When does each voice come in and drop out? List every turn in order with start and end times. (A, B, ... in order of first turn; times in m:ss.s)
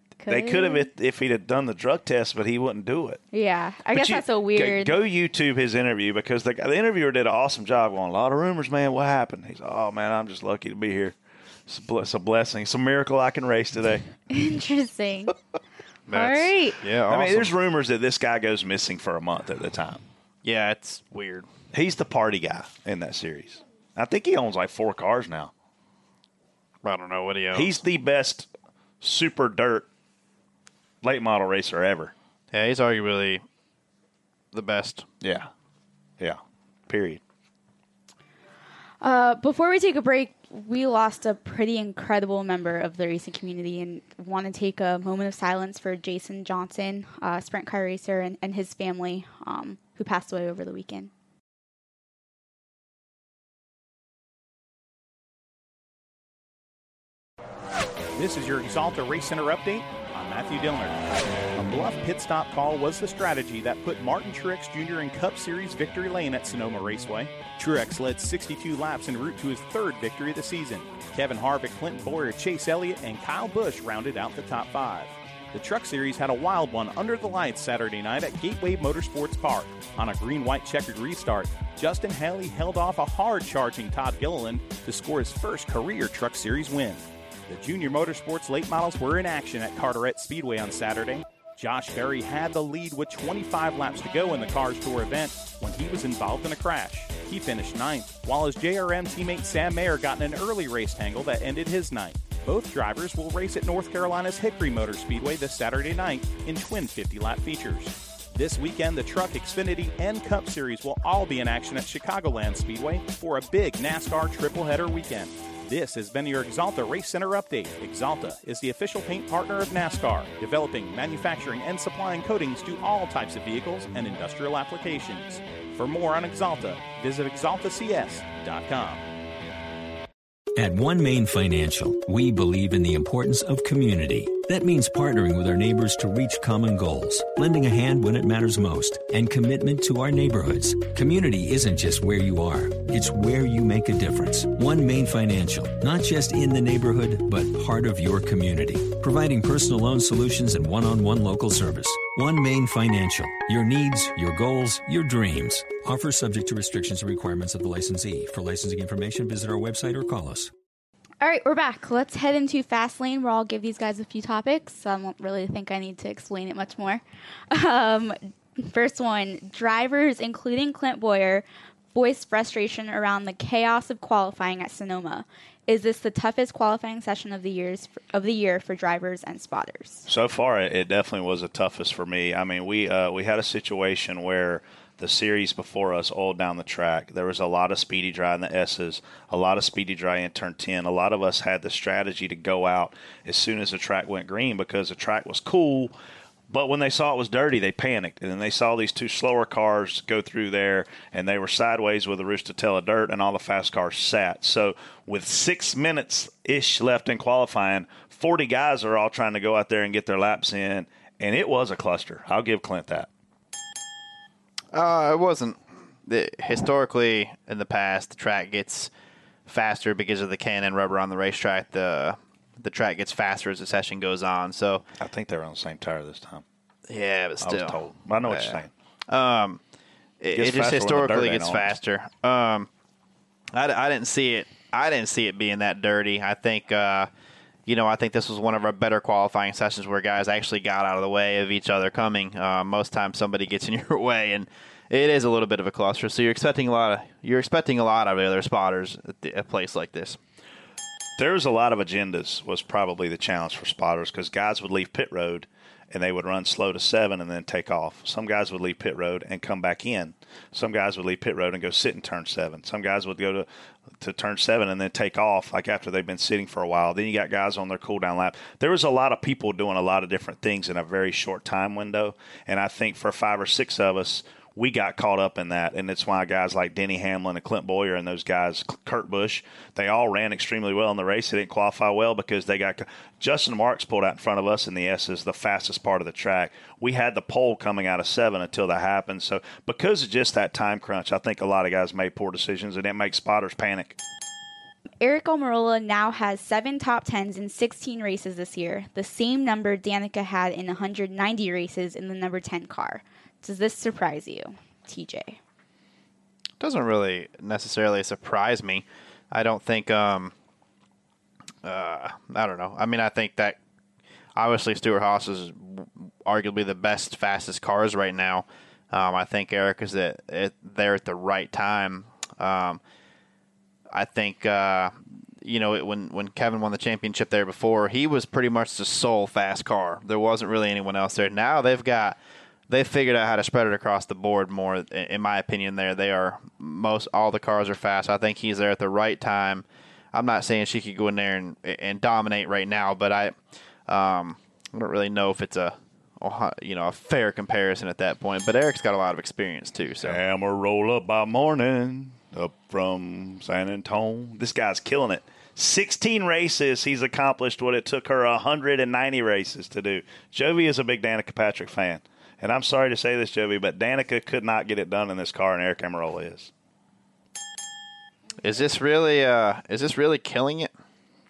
0:00.2-0:00.9 A
0:00.3-0:03.2 B
0:03.3-0:04.9 A
0:03.9-0:11.1 B
0:11.7-0:14.1 B
0:14.3-0:15.3 A
0:16.1-0:17.5 C
0:16.1-0:16.8 A
0:17.1-0:20.0 B
0:20.4-0:21.5 C
0:21.7-0:25.5 B
0:26.8-0:27.7 C
0:27.5-0:28.5 B
0:29.0-0:29.9 B
0:31.0-0:32.1 B
0:32.5-0:33.4 C
0:34.5-0:35.0 C
0:35.2-0:35.5 B
0:36.2-0:37.2 B
0:39.0-0:51.1 A
0:58.1-2:09.0 D
2:10.6-2:40.5 E
2:41.2-3:00.1 A
3:00.1-3:15.9 B
3:16.5-3:33.1 B
3:34.7-3:38.9 C
3:39.5-3:44.8 C
3:45.0-3:46.4 B
3:46.9-3:49.6 C
3:47.4-3:48.7 B
3:50.2-3:52.7 C
3:50.3-3:51.7 B
3:53.5-3:57.1 C
3:57.6-4:10.2 C
4:11.2-4:23.5 B
4:24.0-4:54.0 B
4:55.0-5:05.4 A
5:06.6-5:10.3 C
5:11.6-5:13.6 C
5:14.4-5:22.8 C
5:23.9-5:32.2 C
5:32.7-5:43.4 C
5:43.9-5:50.2 C
5:50.0-6:06.5 B
6:08.4-6:10.7 C